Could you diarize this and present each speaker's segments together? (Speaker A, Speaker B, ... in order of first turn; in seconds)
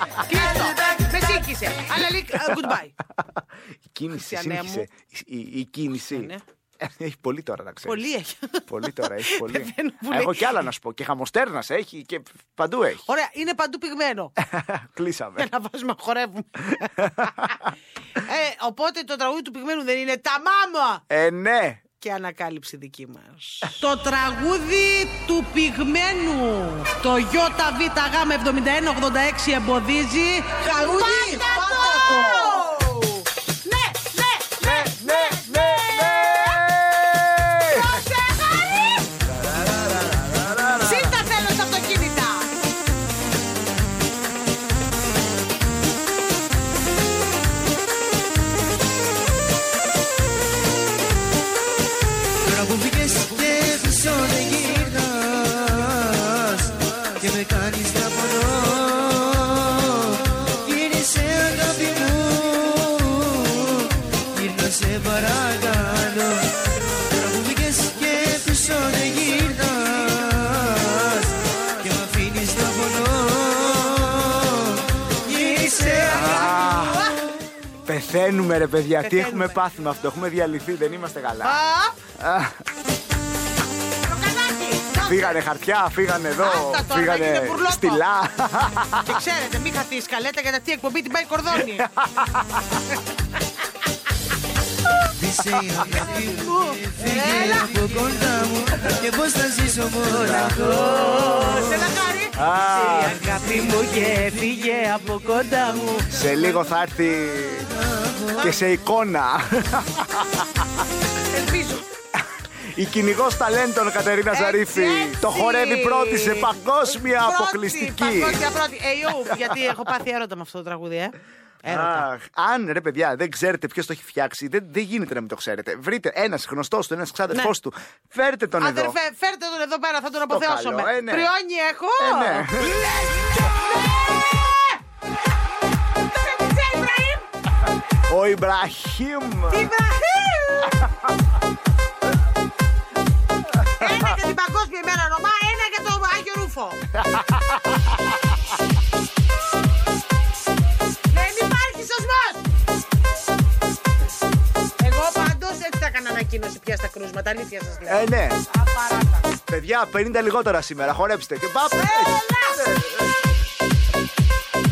Speaker A: 0.2-3.0, 4.1-4.9, 6.0-6.4, 7.8-10.5, 13.1-14.3, 15.4-21.0, 22.0-36.6, 37.6-39.1, 40.8-42.5, 75.2-77.2, 79.0-79.6, 81.4-82.0, 84.0-85.4, 86.4-88.0, 89.0-91.9, 96.0-97.7, 100.1-106.1, 111.3-111.8, 114.3-122.1, 128.6-134.8, 136.1-137.3, 139.5-140.8, 143.8-146.8, 151.1-152.4, 154.8-159.3, 161.7-162.7
Speaker B: 3.2-8.0, 8.7-13.1, 14.4-15.5, 16.8-17.3, 21.1-21.8, 31.2-32.4, 34.6-38.0, 39.2-41.2, 76.1-77.0, 77.9-81.6, 82.2-82.6, 85.0-89.2, 91.7-92.8, 100.2-101.7, 102.4-103.3, 106.1-107.7, 108.4-110.7, 112.2-118.4, 121.7-129.0, 130.3-131.3, 132.0-132.8, 138.1-139.7, 143.5-144.0, 146.9-148.0, 157.9-158.4, 159.5-163.2
Speaker C: 52.5-76.3, 95.2-101.8, 103.3-104.4, 107.7-108.5